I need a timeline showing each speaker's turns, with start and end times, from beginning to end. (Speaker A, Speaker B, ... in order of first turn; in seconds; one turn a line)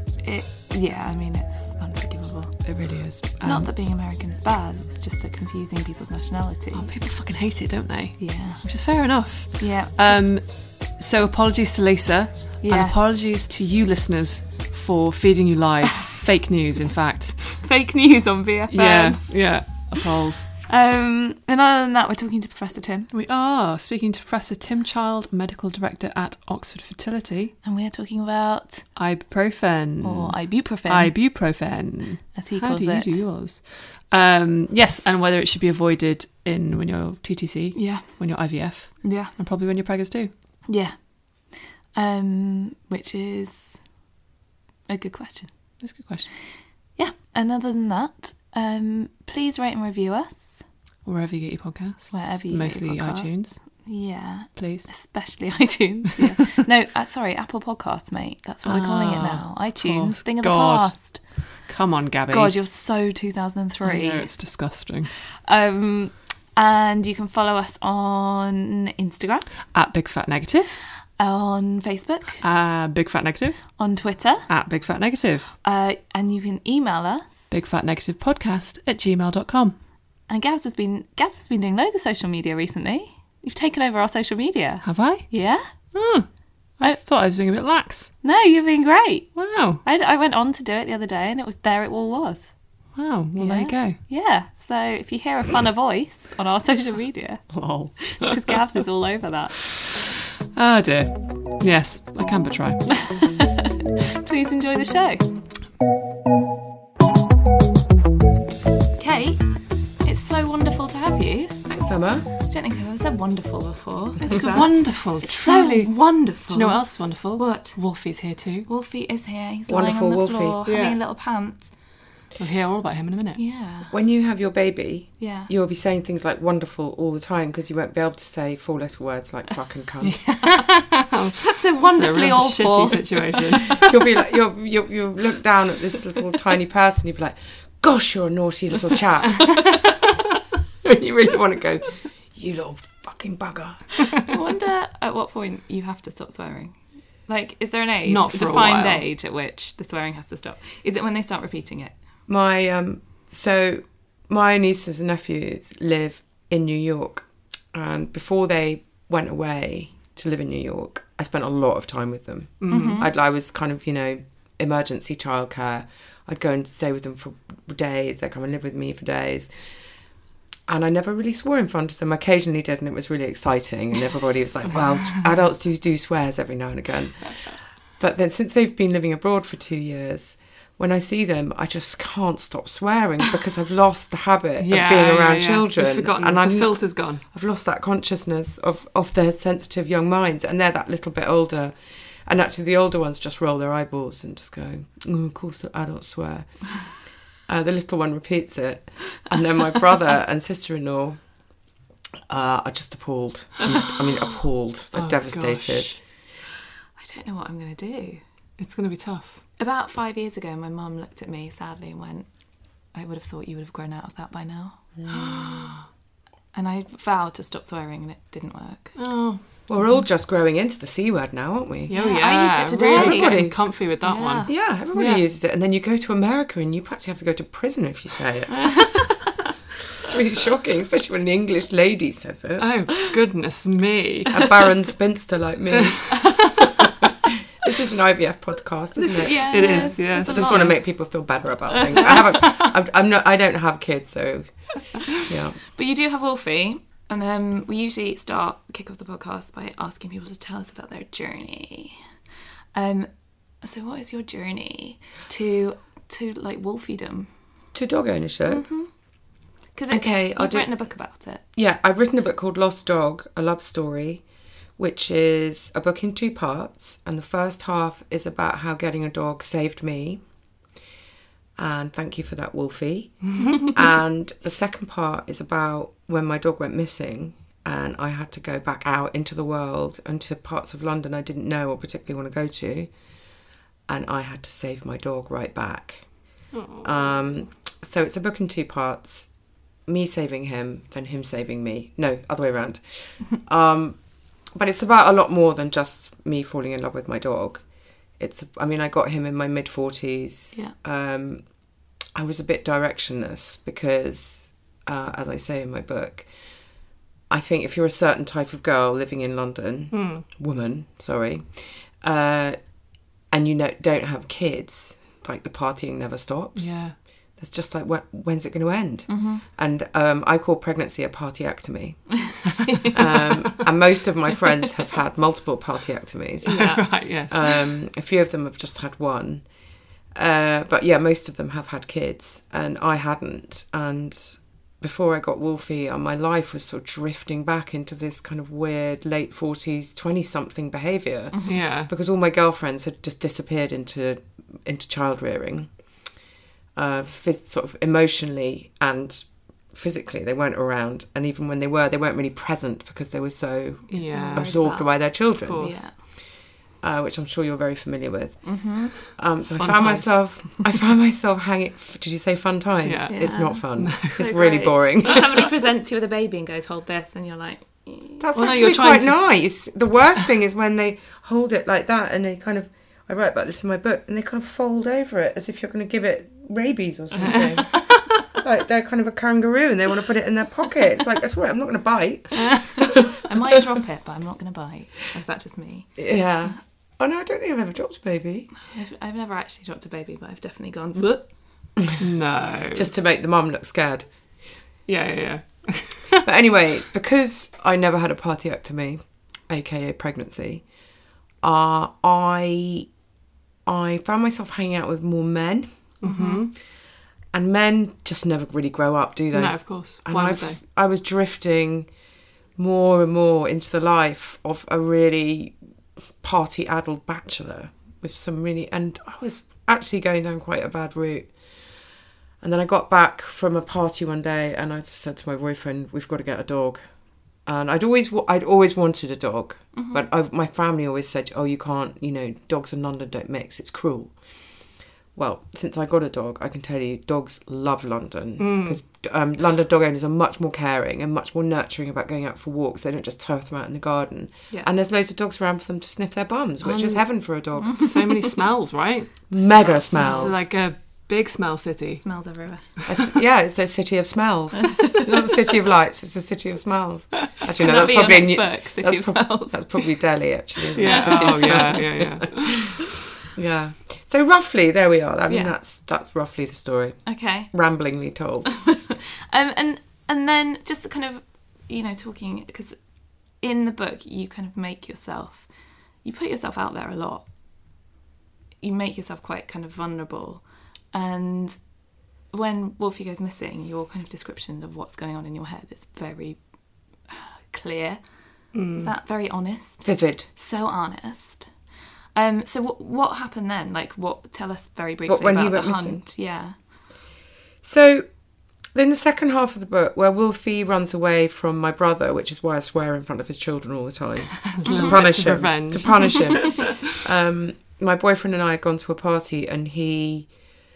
Speaker A: 0.2-2.5
Speaker B: 2.6-3.7
Speaker A: 3.4-6.9
Speaker B: 6.7-17.6
Speaker A: 8.2-8.6
Speaker A: 9.6-10.1
Speaker A: 12.6-12.9
Speaker A: 17.6-19.8
Speaker B: 18.7-20.5
Speaker A: 20.7-23.1
Speaker B: 23.1-27.5
Speaker A: 27.6-28.8
Speaker B: 28.9-40.3
Speaker A: 30.0-31.1
Speaker A: 32.4-33.2
Speaker A: 37.7-38.2
Speaker A: 39.0-39.3
Speaker A: 40.7-40.9
Speaker A: 41.9-43.8
Speaker A: 44.9-45.5
Speaker B: 45.8-46.3
Speaker A: 47.0-50.6
Speaker B: 51.0-53.6
Speaker A: 52.1-61.2
Speaker B: 54.5-54.9
Speaker B: 58.6-62.5
Speaker A: 62.3-64.3
Speaker B: 63.8-65.1
Speaker A: 65.4-69.5
Speaker B: 69.7-70.8
Speaker A: 71.2-72.4
Speaker B: 72.4-73.6
Speaker A: 73.8-74.5
Speaker B: 74.5-75.5
Speaker A: 75.6-77.5
Speaker B: 77.5-79.8
Speaker A: 80.3-85.7
Speaker B: 84.8-85.3
Speaker B: 85.9-86.3
Speaker B: 86.8-88.1
Speaker A: 88.2-92.5
Speaker B: 89.3-89.8
Speaker B: 92.9-94.0
Speaker A: 93.4-99.5
Speaker B: 97.5-98.6
Speaker B: 99.5-100.0
Speaker B: 100.5-102.9
Speaker A: 103.0-105.2
Speaker A: 109.0-109.4
Speaker A: 110.0-111.6
Speaker C: 111.7-112.3
Speaker A: 112.5-117.9
Speaker B: 114.3-118.7
Speaker A: 118.7-121.7
Speaker C: 119.7-120.6
Speaker B: 120.7-121.0
Speaker B: 122.4-123.4
Speaker A: 123.4-123.9
Speaker C: 123.9-130.3
Speaker A: 125.2-125.5
Speaker B: 130.0-133.8
Speaker A: 131.4-133.4
Speaker C: 133.8-139.8
Speaker C: 140.8-144.1
Speaker A: 144.2-151.9
Speaker B: 148.0-149.1
Speaker C: 152.3-169.7
Speaker B: 162.6-163.0
Speaker A: 162.7-163.1
Speaker C: 170.7-201.2
Speaker B: 184.6-187.2
Speaker C: 202.3-206.0
Speaker B: 204.9-206.0
Speaker A: 207.0-208.2
Speaker B: 208.6-209.4
Speaker A: 209.6-212.3
Speaker A: 212.9-214.8
Speaker C: 215.0-215.6
Speaker B: 215.1-215.8
Speaker A: 216.5-218.9
Speaker B: 218.9-219.4
Speaker C: 219.7-223.8
Speaker B: 221.9-225.2
Speaker A: 221.9-224.5
Speaker C: 224.4-229.0
Speaker C: 230.0-232.7
Speaker B: 232.6-234.7
Speaker C: 234.3-245.6
Speaker A: 239.2-240.9
Speaker B: 239.5-240.8
Speaker B: 241.9-242.6
Speaker A: 245.7-252.0
Speaker A: 252.7-253.1
Speaker A: 253.6-257.3
Speaker C: 257.7-258.6
Speaker A: 258.5-258.9
Speaker A: 259.7-261.4
Speaker C: 259.9-260.7
Speaker C: 261.5-264.2
Speaker C: 264.8-270.2
Speaker C: 271.6-282.9
Speaker C: 283.9-289.3
Speaker B: 286.5-287.1
Speaker C: 289.9-297.6
Speaker C: 298.2-301.4
Speaker C: 302.1-306.3
Speaker C: 307.3-312.6
Speaker B: 309.9-310.2
Speaker C: 313.3-322.3
Speaker B: 316.6-316.9
Speaker A: 319.1-319.4
Speaker A: 322.6-322.9
Speaker C: 322.9-329.5
Speaker A: 326.4-327.2
Speaker B: 326.5-327.4
Speaker C: 330.1-345.7
Speaker B: 341.4-341.9
Speaker C: 346.7-356.2
Speaker B: 353.9-354.6
Speaker A: 353.9-355.9
Speaker B: 355.4-355.9
Speaker C: 356.8-365.4
Speaker A: 358.4-359.0
Speaker B: 359.6-360.7
Speaker B: 362.8-364.3
Speaker A: 363.1-369.0
Speaker C: 368.2-383.1
Speaker B: 377.2-378.0
Speaker A: 383.2-386.0
Speaker C: 386.0-388.5
Speaker A: 388.6-391.3
Speaker B: 392.0-392.9
Speaker C: 392.7-394.1
Speaker B: 394.9-396.2
Speaker C: 396.2-400.6
Speaker C: 401.4-402.9
Speaker C: 403.6-405.7
Speaker B: 406.0-406.5
Speaker A: 406.0-406.5
Speaker C: 407.3-411.9
Speaker B: 409.3-410.6
Speaker C: 412.6-415.6
Speaker C: 416.2-421.4
Speaker C: 422.4-426.9
Speaker C: 427.4-434.2
Speaker A: 429.7-430.1
Speaker C: 435.1-448.0
Speaker B: 438.4-438.8
Speaker B: 446.6-452.0
Speaker A: 447.6-447.9
Speaker C: 449.3-450.4
Speaker A: 452.0-452.6
Speaker C: 452.9-468.6
Speaker A: 457.6-459.9
Speaker B: 460.8-462.6
Speaker A: 460.8-462.1
Speaker A: 465.3-465.5
Speaker A: 467.1-467.5
Speaker A: 468.6-472.8
Speaker A: 473.3-475.5
Speaker A: 476.0-477.2
Speaker A: 478.6-481.6
Speaker A: 482.3-486.4
Speaker A: 487.1-491.6
Speaker B: 488.5-488.9
Speaker C: 489.8-490.3
Speaker A: 492.1-496.6
Speaker C: 495.1-496.0
Speaker C: 497.6-498.1
Speaker C: 498.7-510.3
Speaker B: 504.5-506.7
Speaker A: 504.6-505.0